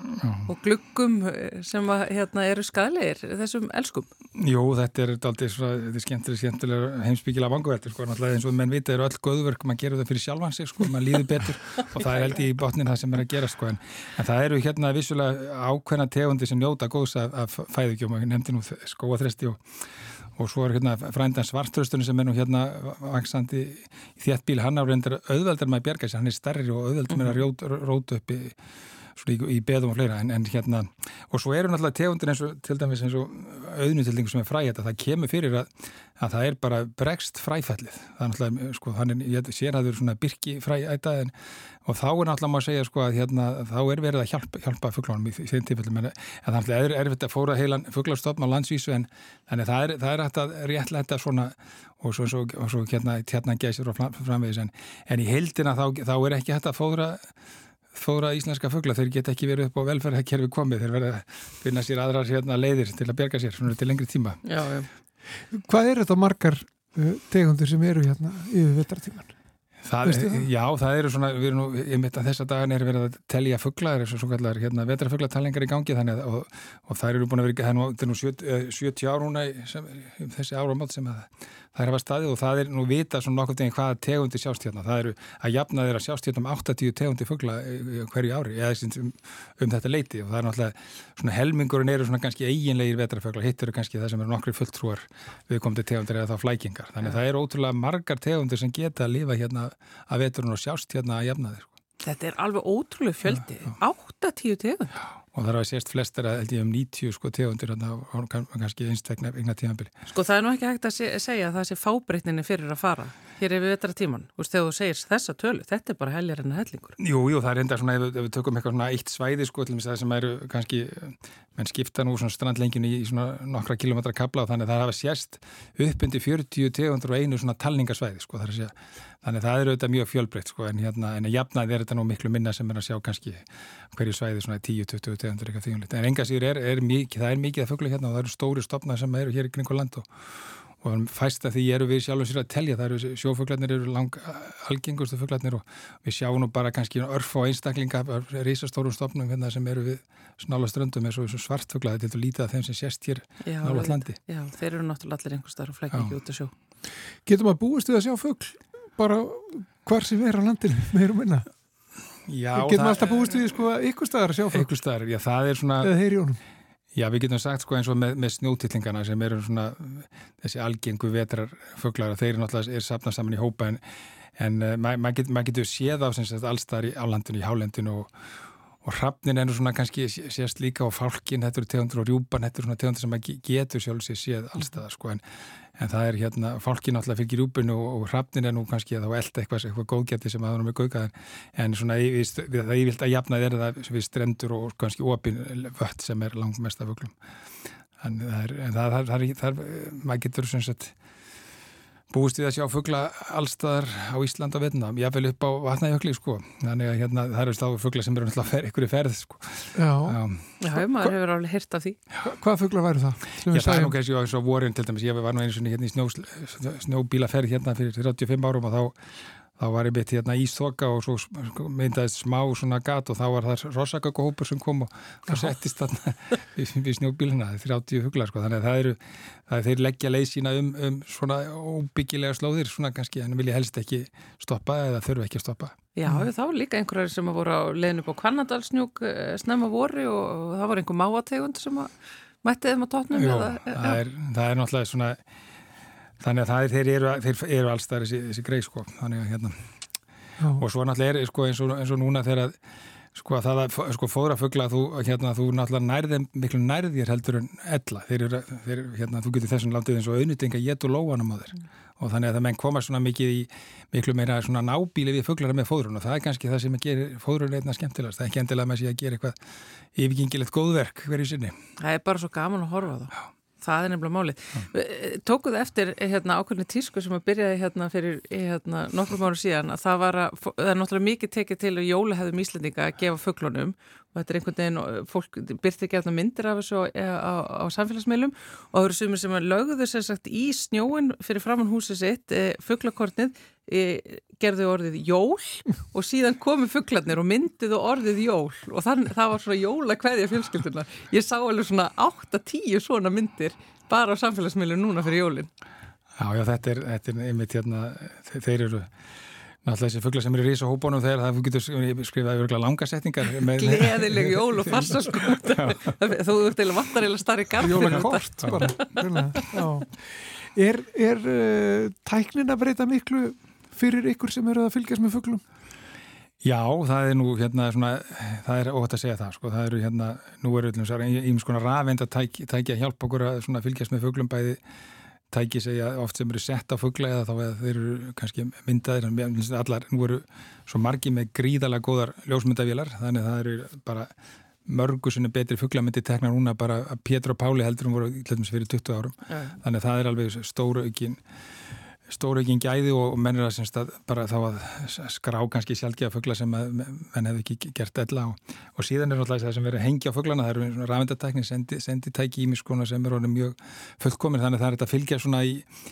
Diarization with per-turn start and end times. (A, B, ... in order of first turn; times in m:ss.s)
0:00.4-0:04.1 A
0:04.4-0:19.6 B
0:20.3-0:28.5 B
0:27.1-0:27.4 A
0:29.2-0:41.3 B
0:41.8-0:57.3 B
0:57.9-1:04.4 B
1:04.4-1:04.9 A
1:05.5-1:09.4 C
1:09.8-1:41.7 B
1:10.0-1:10.5 C
1:42.0-1:45.0 A
1:45.3-1:49.9 B
1:50.1-1:57.0 A
1:57.0-2:20.1 B
2:20.8-2:34.2 B
2:33.4-2:36.5 A
2:37.2-2:41.5 C
2:42.3-2:43.5 B
2:42.5-2:44.7 C
2:44.5-2:45.9 B
2:45.8-2:46.4 C
2:46.9-2:53.8 B
2:54.4-2:58.1 B
2:58.8-3:05.2 B
3:05.8-3:17.1 B
3:18.0-3:20.9 B
3:22.1-3:30.5 B
3:29.7-3:30.2 C
3:30.6-3:32.0 A
3:32.2-3:33.9 C
3:33.5-3:39.0 B
3:39.6-3:55.8 B
3:55.9-4:01.9 A
4:02.4-4:04.0 A
4:03.1-4:05.2 B
4:06.2-4:09.6 B
4:10.4-4:10.6 C
4:10.6-4:12.6 B
4:13.1-4:29.4 B
4:29.9-4:31.6 B
4:31.8-5:05.5 A
5:06.2-5:08.9 B
5:09.6-5:15.9 B
5:13.6-5:19.0 A
5:17.6-5:25.4 C
5:18.4-5:18.7 B
5:26.4-5:34.6 B
5:35.3-5:44.1 B
5:44.6-5:51.2 B
5:49.3-5:49.6 A
5:52.1-6:05.7 B